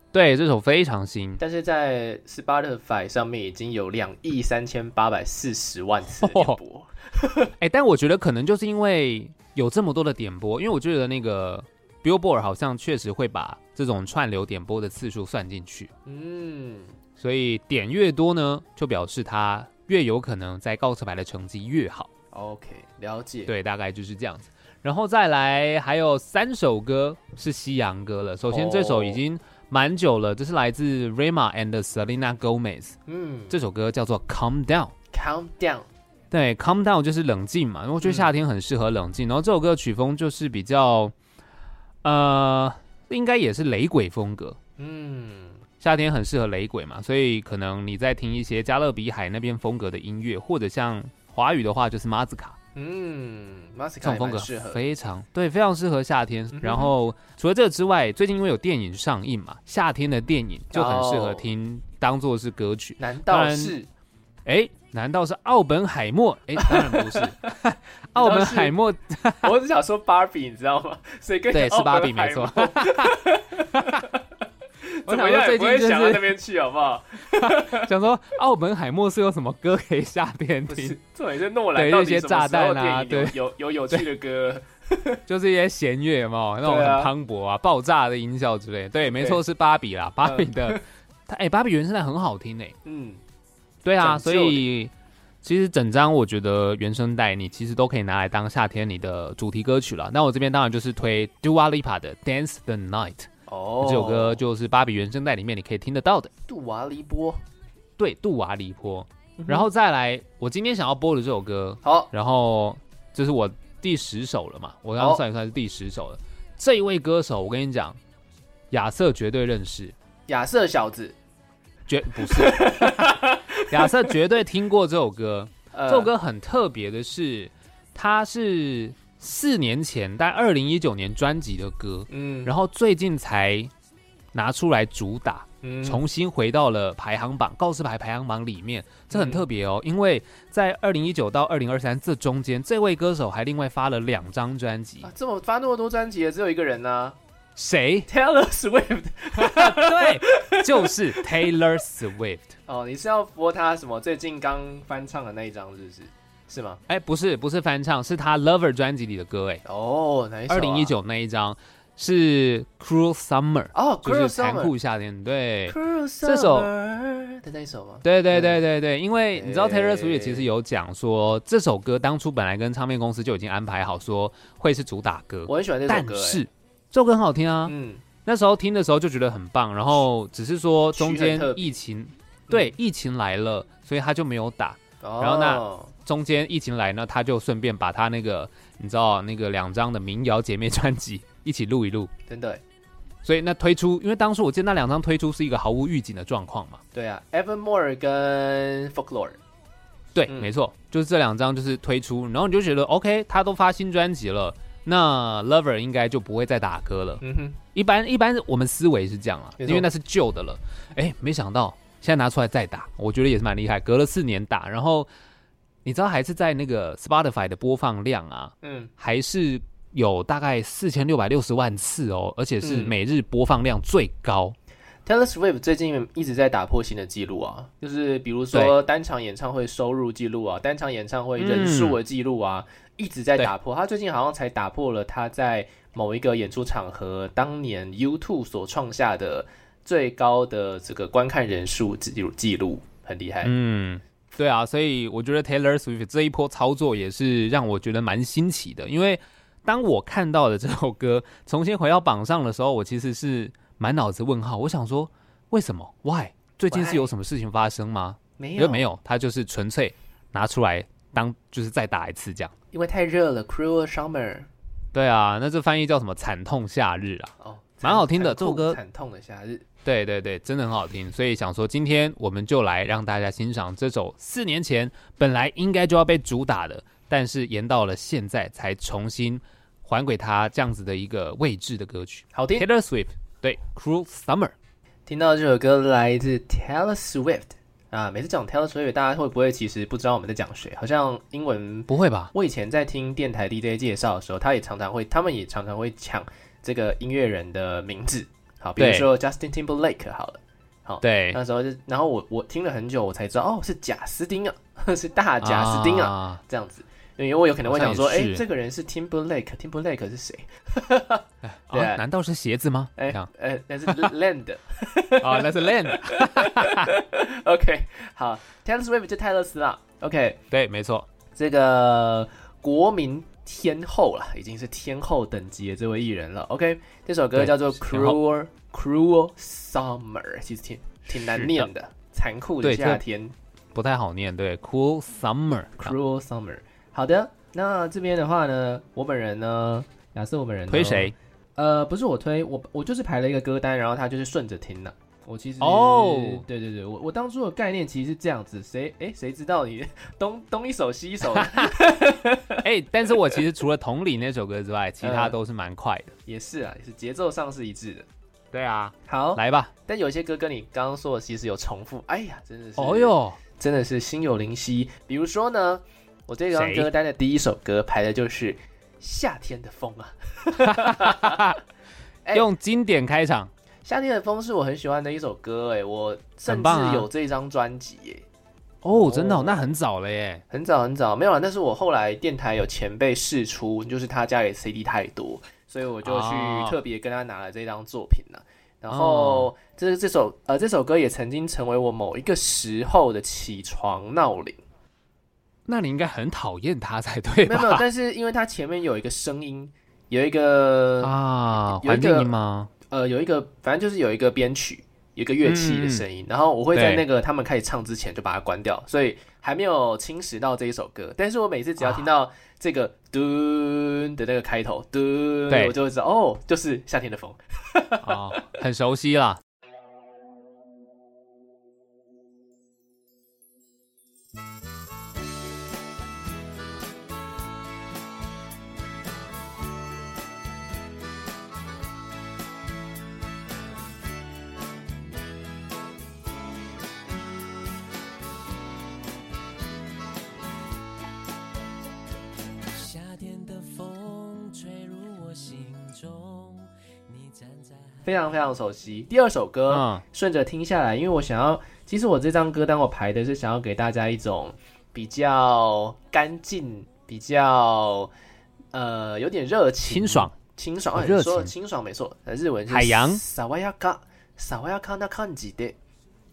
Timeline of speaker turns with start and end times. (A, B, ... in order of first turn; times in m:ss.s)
0:00.1-0:01.4 A
0:01.4-0:07.5 B
0:06.2-0:06.6 A
0:07.6-0:15.9 A
0:16.0-0:17.0 B
0:17.2-0:22.1 A
0:22.3-0:23.5 B
0:23.5-0:33.0 A
0:28.5-0:29.2 B
0:33.1-0:33.6 B
0:33.5-0:34.9 A
0:35.1-0:35.9 B
0:36.3-0:41.1 A
0:38.0-0:38.3 B
0:42.0-0:44.6 A
0:44.8-0:45.6 B
0:45.8-0:52.6 A
0:52.7-0:54.9 B
0:54.0-1:03.7 A
0:56.5-0:56.9 B
1:00.7-1:01.4 B
1:03.0-1:03.9 B
1:04.4-1:09.5 A
1:06.6-1:07.5 B
1:08.2-1:08.8 B
1:09.4-1:14.2 B
1:11.5-1:13.2 A
1:13.7-1:14.1 A
1:14.8-1:17.9 B
1:15.1-1:16.4 A
1:17.4-1:21.0 A
1:20.7-1:25.2 B
1:21.7-1:23.4 A
1:25.3-1:32.8 A
1:26.6-1:27.1 B
1:29.0-1:29.4 B
1:30.2-1:30.8 B
1:32.8-1:33.2 B
1:33.8-1:34.9 A
1:34.0-1:34.6 B
1:35.4-1:43.3 A
1:43.5-1:44.4 B
1:43.8-1:46.3 A
1:46.5-1:47.4 B
1:48.0-1:58.0 A
1:49.4-1:49.7 B
1:51.8-1:52.1 B
1:58.7-1:59.9 A
2:00.3-2:01.2 B
2:01.9-2:13.7 A
2:02.2-2:04.1 B
2:05.7-2:06.1 B
2:12.1-2:12.5 B
2:14.3-2:25.1 A
2:15.6-2:16.0 B
2:19.1-2:19.4 B
2:25.0-2:27.2 B
2:27.6-2:28.1 A
2:28.1-2:31.3 B
2:29.4-2:32.5 A
2:32.7-2:36.8 B
2:36.9-2:39.6 A
2:39.6-2:40.9 B
2:40.5-2:46.7 A
2:43.7-2:44.7 B
2:45.7-2:48.6 B
2:48.0-2:57.7 A
2:49.3-2:50.5 B
2:55.5-2:56.4 B
2:57.6-2:58.0 B
2:58.2-3:12.1 A
3:00.9-3:01.7 B
3:05.0-3:05.9 B
3:12.3-3:12.6 B
3:13.2-3:16.8 A
3:16.9-3:19.4 B
3:20.1-3:27.2 A
3:20.3-3:20.5 B
3:27.2-3:27.6 B
3:27.7-3:35.1 A
3:29.6-3:29.9 B
3:35.8-3:44.5 A
3:38.6-3:38.9 B
3:42.6-3:42.9 B
3:45.0-4:03.5 B
3:51.4-3:52.0 A
4:03.4-4:22.5 A
4:16.7-4:17.1 B
4:18.4-4:18.9 B
4:22.7-4:24.5 B
4:24.9-4:28.8 A
4:27.4-4:29.6 B
4:29.8-4:44.5 A
4:42.3-4:42.7 B
4:45.1-5:12.0 B
4:51.9-4:52.3 A
4:58.8-4:59.1 A
5:01.0-5:01.4 A
5:05.4-5:06.4 A
5:07.6-5:08.4 A
5:11.4-5:13.3 A
5:13.0-5:20.4 B
5:13.8-5:14.1 A
5:15.2-5:16.9 A
5:20.5-5:21.1 A
5:21.4-5:33.3 B
5:27.3-5:28.2 A
5:31.1-5:31.7 A
5:32.6-5:33.0 A
5:33.7-5:35.9 A
5:35.8-5:52.6 B
5:40.7-5:41.1 A
5:45.6-5:46.4 A
5:51.3-5:51.7 A
5:52.6-5:56.1 A
5:55.0-5:55.4 B
5:56.2-5:58.0 B
5:58.5-5:59.7 A
5:59.0-6:11.4 B
6:02.8-6:03.4 A
6:06.5-6:06.9 A
6:10.6-6:11.6 A
6:12.3-6:13.5 A
6:13.8-6:18.2 B
6:16.5-6:17.1 A
6:18.8-6:20.4 A
6:18.9-6:19.6 B
6:20.5-6:34.6 B
6:26.0-6:26.8 A
6:28.9-6:29.5 A
6:35.6-6:37.8 A
6:37.4-6:42.3 B
6:41.0-6:42.7 A
6:42.9-6:58.5 B
6:45.4-6:46.0 A
6:46.7-6:47.0 A
6:51.8-6:52.1 A
6:55.5-6:55.8 A
6:58.0-6:59.4 A
7:22.7-7:28.1 C
7:28.0-7:38.1 B
7:29.7-7:30.0 A
7:38.7-7:45.8 B
7:39.8-7:40.3 A
7:40.9-7:41.5 A
7:42.7-7:43.2 A